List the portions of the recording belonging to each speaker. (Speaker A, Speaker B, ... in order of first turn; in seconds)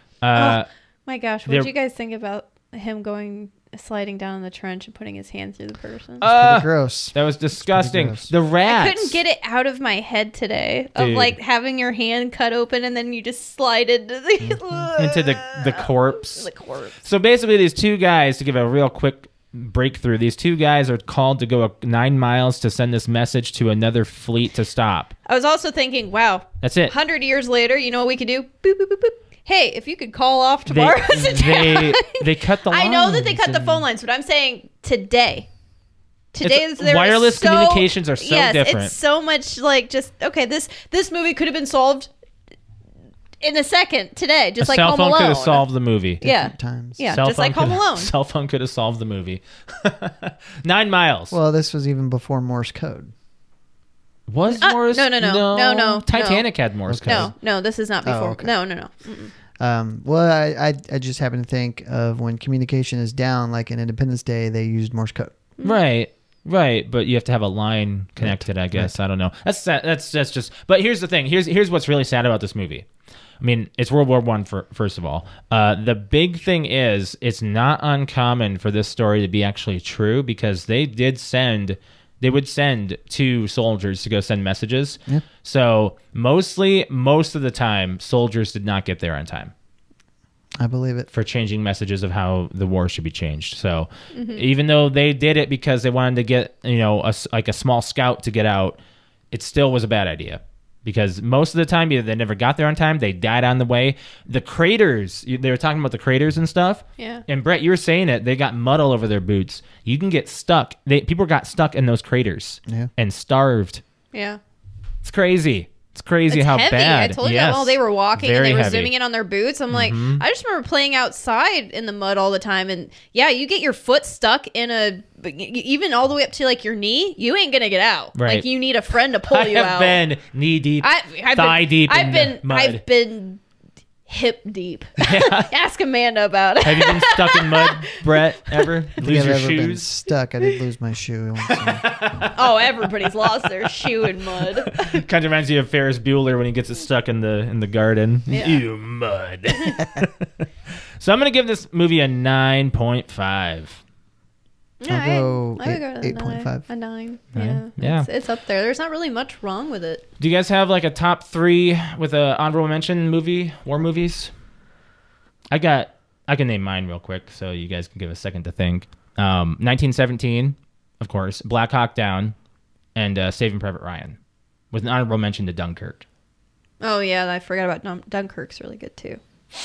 Speaker A: 0.2-0.7, 6.2-9.2, 11.0-11.3, 15.0-16.5, 17.0-25.1, 26.6-26.9, 30.7-33.8, 36.4-38.9, 44.6-46.2, 47.1-51.4, 54.3-57.3, 65.6-72.9, 73.4-89.5, 91.1-98.8, 99.3-113.8, 115.0-118.9, 119.7-120.2, 128.2-128.5, 129.2-132.8, 135.0-135.5, 136.6-139.9, 141.5-150.5, 151.0-153.8, 157.3-158.1, 160.2-164.3, 165.5-172.3, 172.9-174.2, 174.7-176.0
Speaker B: 0.3-6.2, 8.6-17.0, 25.3-35.5, 36.3-42.1, 43.4-45.7, 46.2-48.1, 54.5-56.5, 57.1-59.3, 94.1-94.4, 107.0-107.2, 114.1-114.4, 116.3-130.0, 130.8-133.4, 134.1-138.7, 142.3-145.0, 148.3-148.6, 154.8-160.1, 176.8-179.2
Speaker C: 6.2-8.3, 46.2-47.0, 51.3-53.1, 56.9-57.3, 58.0-58.5, 59.6-65.3, 68.2-69.0, 90.6-91.1, 139.0-142.3, 154.9-156.6